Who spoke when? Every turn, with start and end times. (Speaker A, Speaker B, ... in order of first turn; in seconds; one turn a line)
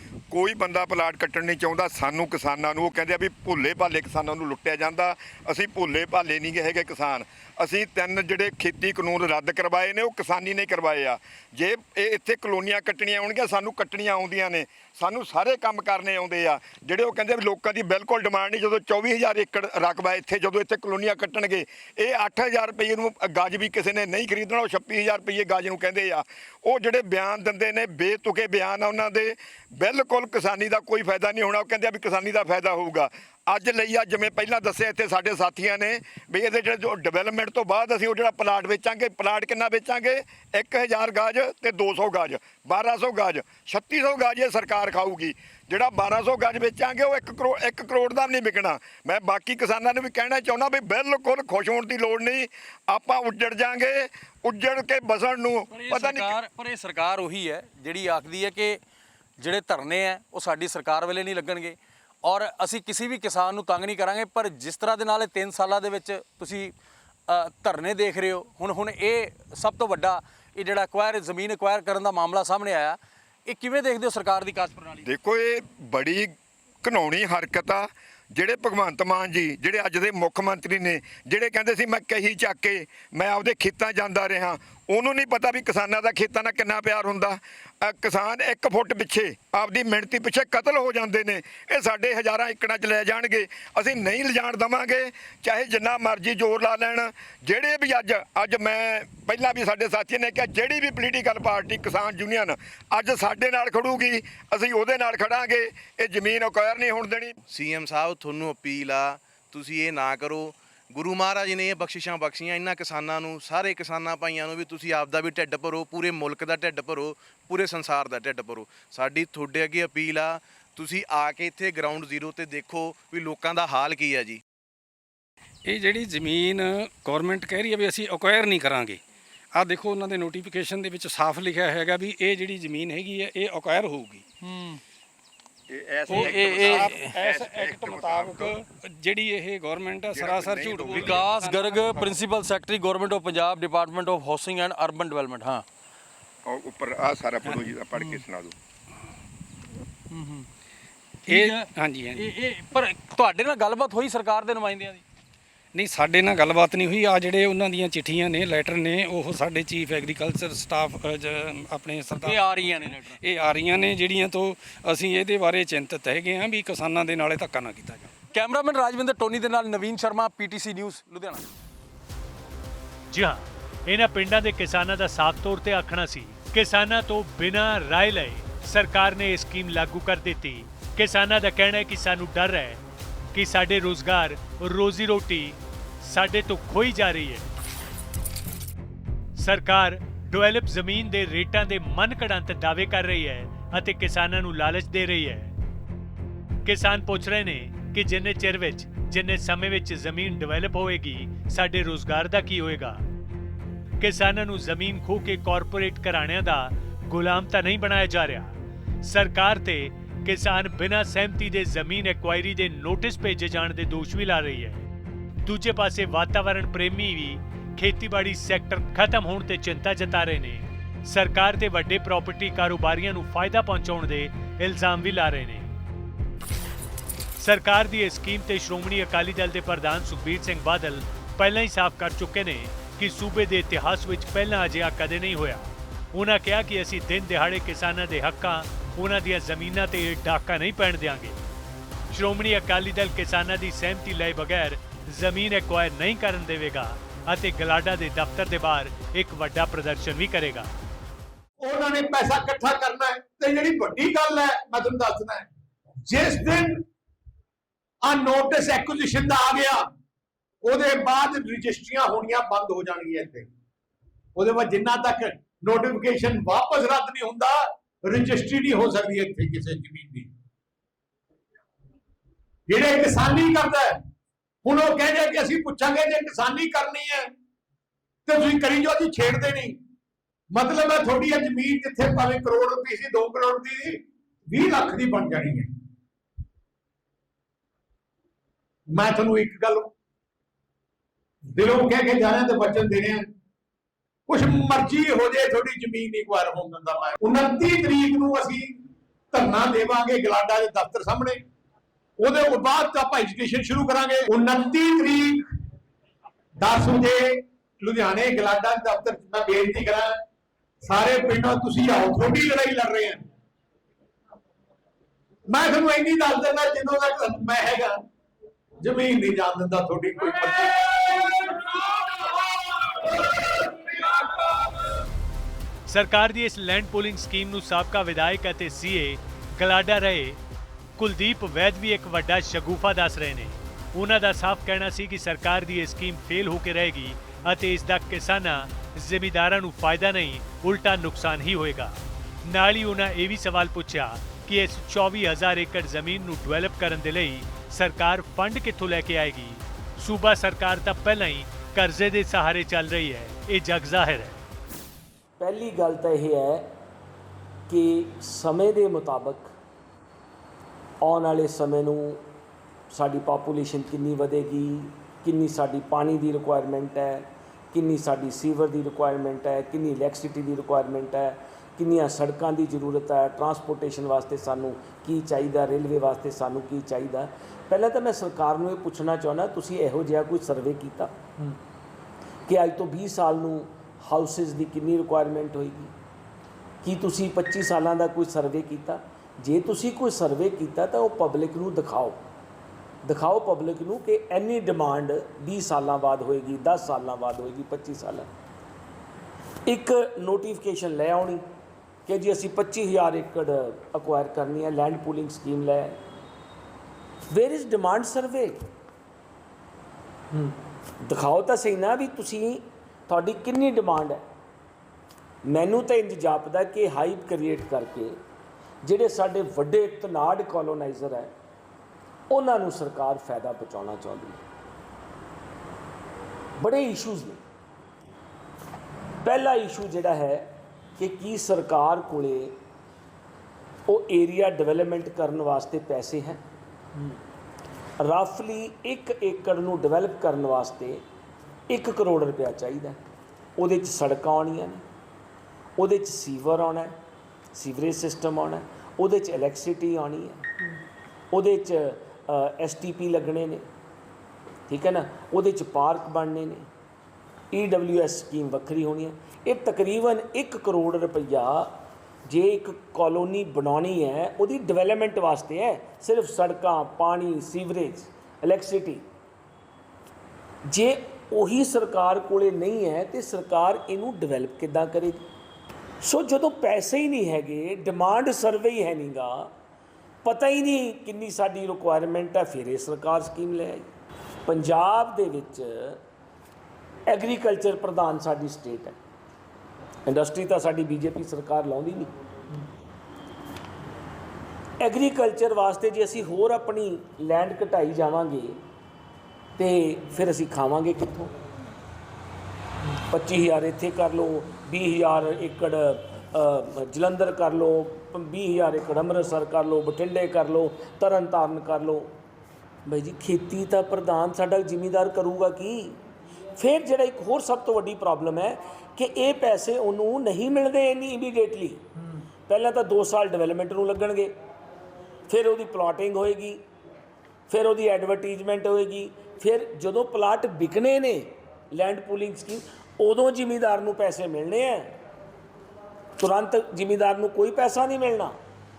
Speaker A: 0.3-56.4
Speaker B: 55.7-58.8
Speaker B: 59.4-66.7
Speaker B: 67.3-75.1
Speaker A: 75.0-107.4
Speaker C: 107.5-124.4
Speaker D: 125.7-129.0
Speaker D: 129.5-134.3
Speaker A: 135.7-138.6
Speaker B: 136.1-137.1
Speaker D: 136.1-142.1
Speaker A: 140.1-142.2
Speaker B: 140.9-145.7
Speaker A: 146.5-148.6
Speaker B: 150.1-150.4
Speaker D: 151.3-152.3
Speaker B: 151.3-155.0
Speaker D: 155.7-168.1
Speaker B: 162.1-163.2
Speaker B: 168.3-171.4
Speaker E: 173.1-182.8
Speaker E: 183.3-187.5
Speaker E: 189.4-195.5
Speaker E: 196.7-203.0
Speaker E: 204.0-214.9
Speaker E: 215.4-225.7
Speaker E: 227.4-241.4
Speaker E: 242.1-250.7
Speaker F: 251.6-255.5
Speaker F: 256.1-256.8
Speaker F: 258.0-259.9
Speaker F: 260.6-263.5
Speaker F: 264.4-270.3
Speaker F: 272.7-274.0
Speaker F: 274.6-277.3
Speaker F: 278.3-279.8
Speaker F: 280.5-285.7
Speaker F: 288.9-289.9
Speaker F: 291.5-293.2
Speaker F: 294.3-298.7
Speaker F: 299.3-301.4
Speaker F: 302.2-305.5
Speaker F: 306.6-310.2
Speaker F: 310.8-313.2
Speaker F: 315.5-318.0
Speaker F: 318.8-324.7
Speaker E: 325.9-330.4
Speaker E: 331.0-354.4
Speaker G: 355.4-356.7
Speaker G: 357.7-359.5
Speaker G: 361.0-362.2
Speaker G: 362.9-381.1
Speaker G: 382.5-385.9
Speaker G: 386.8-392.2
Speaker G: 393.0-398.3
Speaker G: 399.7-401.4
Speaker G: 402.1-406.0
Speaker G: 407.3-408.6
Speaker G: 411.1-414.2
Speaker G: 415.5-418.2
Speaker G: 418.8-421.3
Speaker G: 422.3-424.4
Speaker G: 426.6-427.4
Speaker G: 429.2-432.6
Speaker G: 433.9-436.4
Speaker G: 438.0-441.0
Speaker G: 441.7-443.0
Speaker G: 443.6-444.8
Speaker G: 445.8-447.0
Speaker G: 447.5-450.5
Speaker G: 451.3-453.7
Speaker G: 454.7-456.7
Speaker G: 457.5-469.1
Speaker G: 470.7-475.3
Speaker G: 476.0-479.5
Speaker G: 480.2-483.9
Speaker G: 484.5-486.0
Speaker G: 487.1-489.0
Speaker G: 490.1-492.1
Speaker G: 494.8-498.6
Speaker G: 499.6-501.3
Speaker G: 502.9-512.1
Speaker G: 512.9-516.0
Speaker G: 516.6-521.9
Speaker G: 522.5-524.4
Speaker G: 525.3-526.6
Speaker G: 527.5-535.0
Speaker G: 536.2-538.4